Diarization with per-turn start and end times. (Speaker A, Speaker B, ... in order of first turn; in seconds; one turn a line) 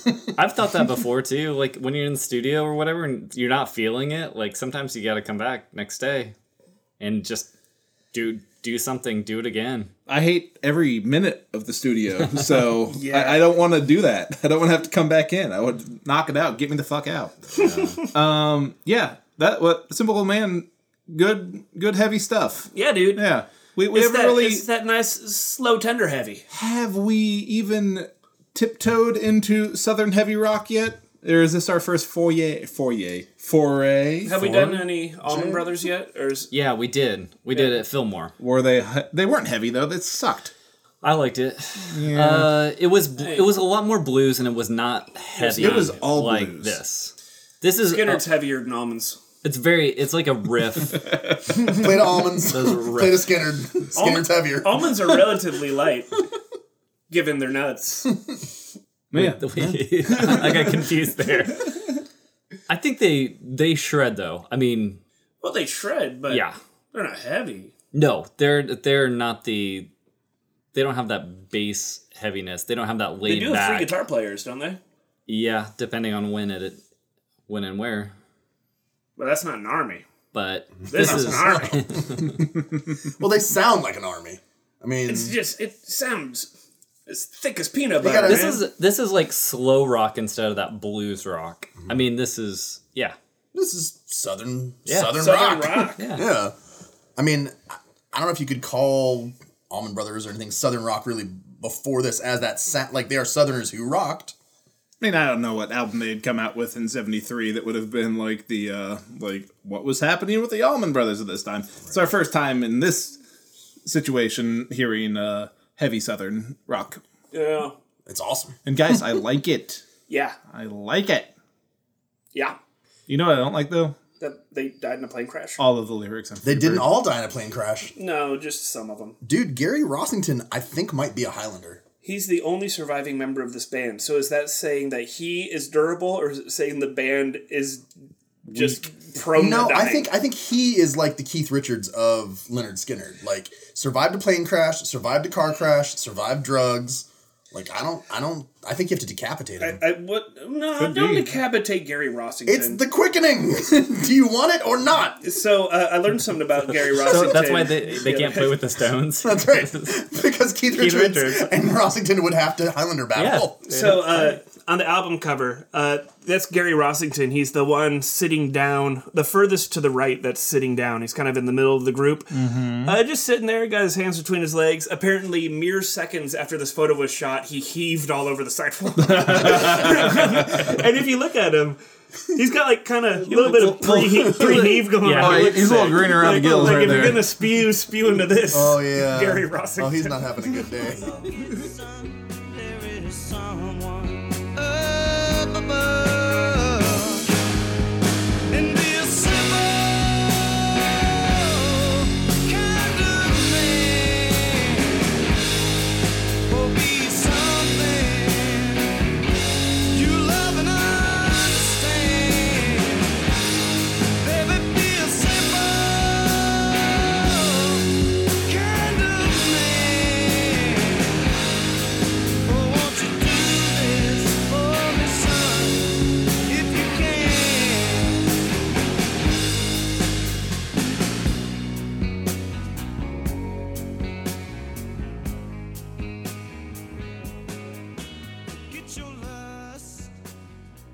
Speaker A: 0.4-6.3
Speaker A: 7.0-7.5
Speaker A: 8.1-9.9
Speaker B: 10.1-24.6
Speaker C: 12.9-13.4
Speaker C: 17.6-17.9
Speaker C: 22.7-23.2
Speaker C: 23.9-26.4
Speaker B: 26.5-34.8
Speaker C: 34.2-36.5
Speaker D: 35.2-35.7
Speaker A: 36.5-38.3
Speaker B: 38.4-40.5
Speaker A: 41.0-48.2
Speaker B: 41.9-42.5
Speaker C: 43.2-43.5
Speaker C: 45.4-46.0
Speaker B: 45.5-46.8
Speaker C: 47.9-49.2
Speaker A: 49.4-51.1
Speaker D: 51.5-55.4
Speaker A: 52.4-53.3
Speaker C: 54.0-56.2
Speaker C: 57.1-58.2
Speaker B: 59.1-59.4
Speaker A: 59.1-61.7
Speaker A: 62.7-65.0
Speaker C: 65.4-67.7
Speaker A: 66.3-66.6
Speaker A: 67.9-69.9
Speaker A: 70.7-74.0
Speaker C: 73.2-74.8
Speaker A: 75.3-76.8
Speaker A: 77.5-78.1
Speaker C: 79.2-80.0
Speaker A: 80.3-82.4
Speaker D: 80.9-82.2
Speaker C: 80.9-81.9
Speaker D: 83.2-85.4
Speaker C: 85.1-86.5
Speaker C: 87.1-88.6
Speaker D: 88.0-88.5
Speaker A: 88.2-93.2
Speaker D: 93.5-96.5
Speaker A: 94.9-95.2
Speaker C: 95.1-96.1
Speaker A: 96.0-96.3
Speaker D: 97.2-104.3
Speaker B: 105.0-113.2
Speaker B: 113.8-117.0
Speaker C: 117.3-117.8
Speaker D: 118.1-119.0
Speaker B: 118.7-119.8
Speaker C: 120.1-120.4
Speaker B: 120.5-121.3
Speaker B: 123.1-124.0
Speaker C: 124.2-125.6
Speaker B: 125.6-126.9
Speaker D: 126.4-127.9
Speaker C: 128.0-129.2
Speaker D: 129.2-131.8
Speaker C: 132.0-137.8
Speaker C: 138.5-140.1
Speaker D: 139.3-149.8
Speaker C: 149.6-152.8
Speaker B: 150.8-151.3
Speaker D: 152.5-155.2
Speaker C: 155.2-158.6
Speaker A: 156.9-160.0
Speaker D: 159.2-163.6
Speaker A: 160.7-161.5
Speaker A: 163.2-164.4
Speaker C: 163.7-190.6
Speaker B: 172.3-172.9
Speaker B: 179.0-180.7
Speaker B: 183.2-187.3
Speaker A: 185.0-185.8
Speaker D: 188.5-191.3
Speaker E: 190.9-197.3
Speaker E: 198.5-205.3
Speaker E: 206.5-208.9
Speaker E: 209.9-213.2
Speaker E: 214.2-217.9
Speaker E: 218.4-221.3
Speaker E: 222.4-228.3
Speaker E: 238.7-240.1